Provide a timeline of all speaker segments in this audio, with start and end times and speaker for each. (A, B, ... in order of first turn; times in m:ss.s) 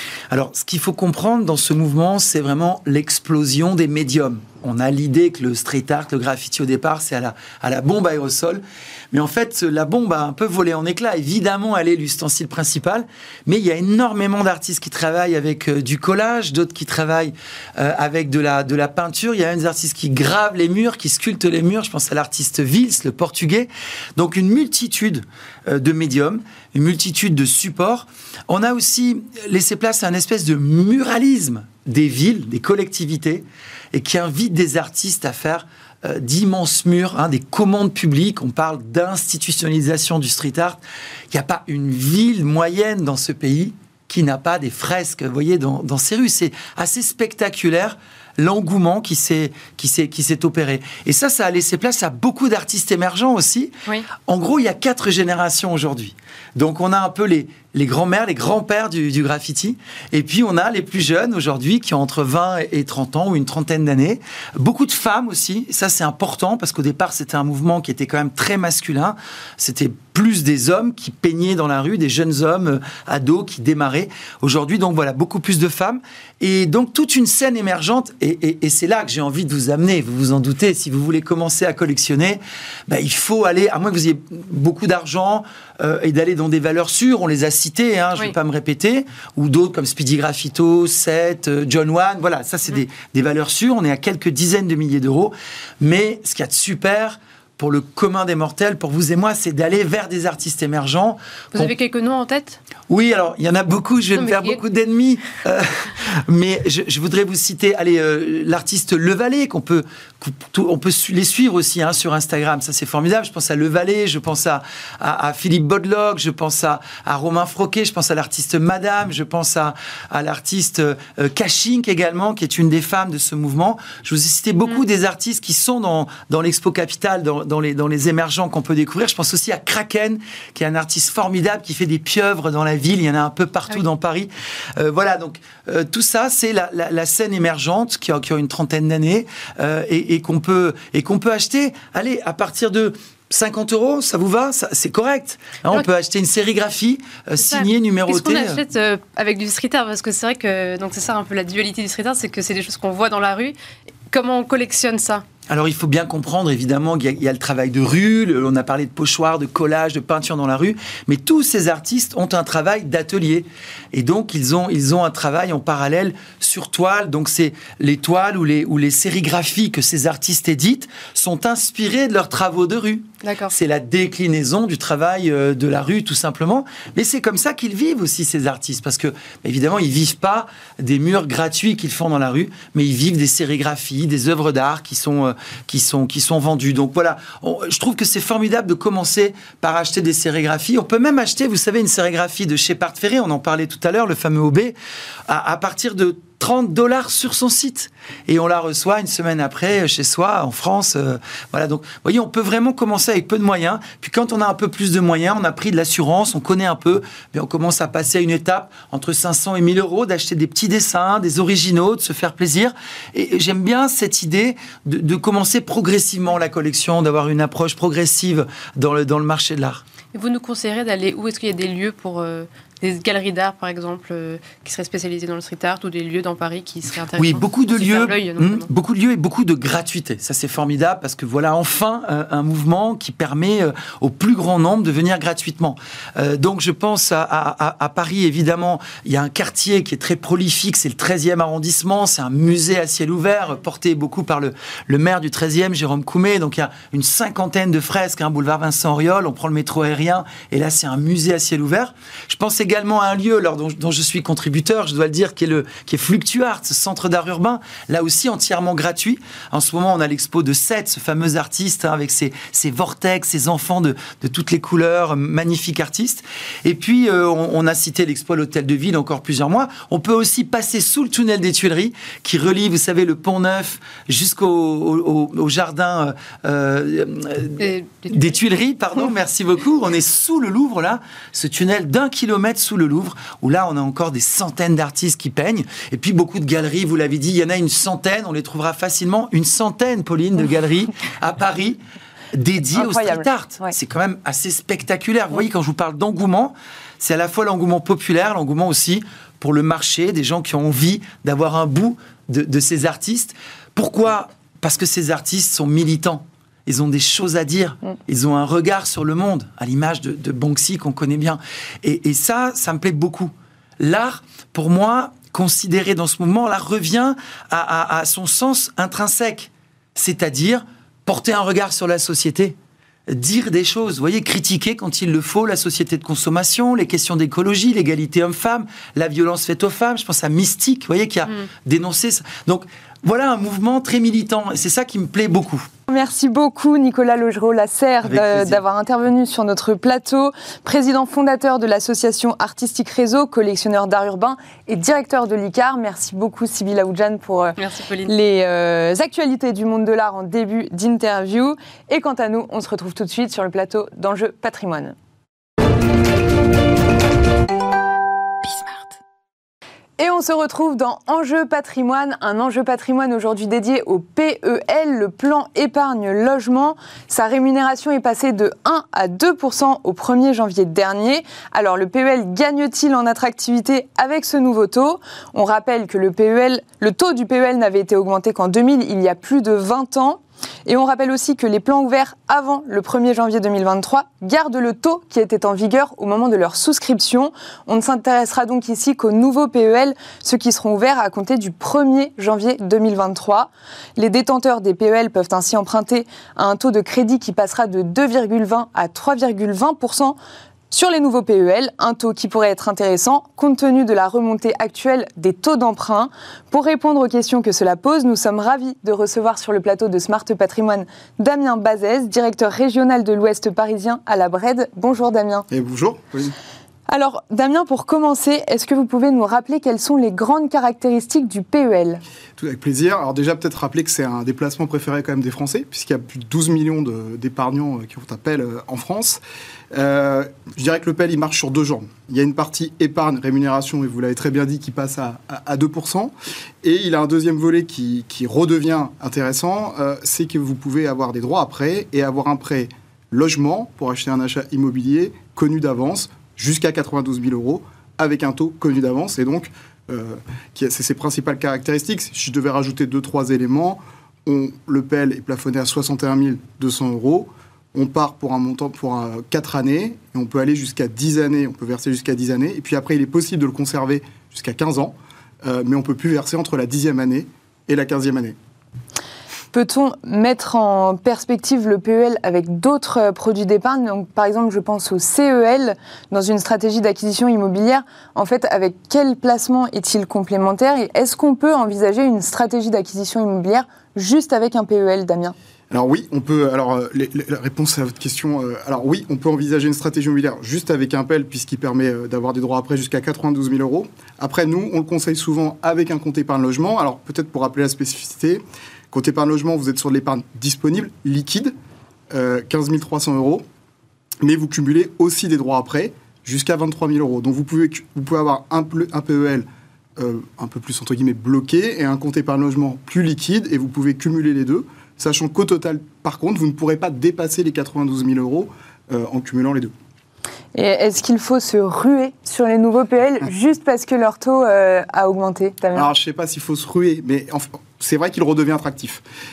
0:00.3-1:41.7 A
1:41.5-1:42.6 B
1:42.9-2:28.6 A
1:44.1-1:44.6 B
2:27.4-2:33.5 B
2:34.1-2:35.2 B
2:35.5-3:14.7 A
2:53.2-2:53.5 B
3:15.3-3:39.8 A
3:40.1-3:48.6 B
3:47.2-4:51.8 A
4:37.6-4:38.4 B
4:52.3-5:22.5 A
4:52.7-4:53.7 C
5:23.1-5:35.7 A
5:35.9-5:54.9 C
5:38.0-5:38.6 A
5:47.6-5:48.1 B
6:00.0-6:40.2 C
6:40.7-6:55.5 C
6:55.5-6:56.4 D
6:56.9-7:02.0 C
7:02.4-7:09.2 D
7:09.7-7:48.4 D
7:49.5-8:05.3 C
8:05.7-8:21.5 D
8:22.1-8:23.4 D
8:24.2-8:29.4 D
8:30.0-8:39.7 D
8:40.5-8:45.9 C
8:45.7-8:49.0 D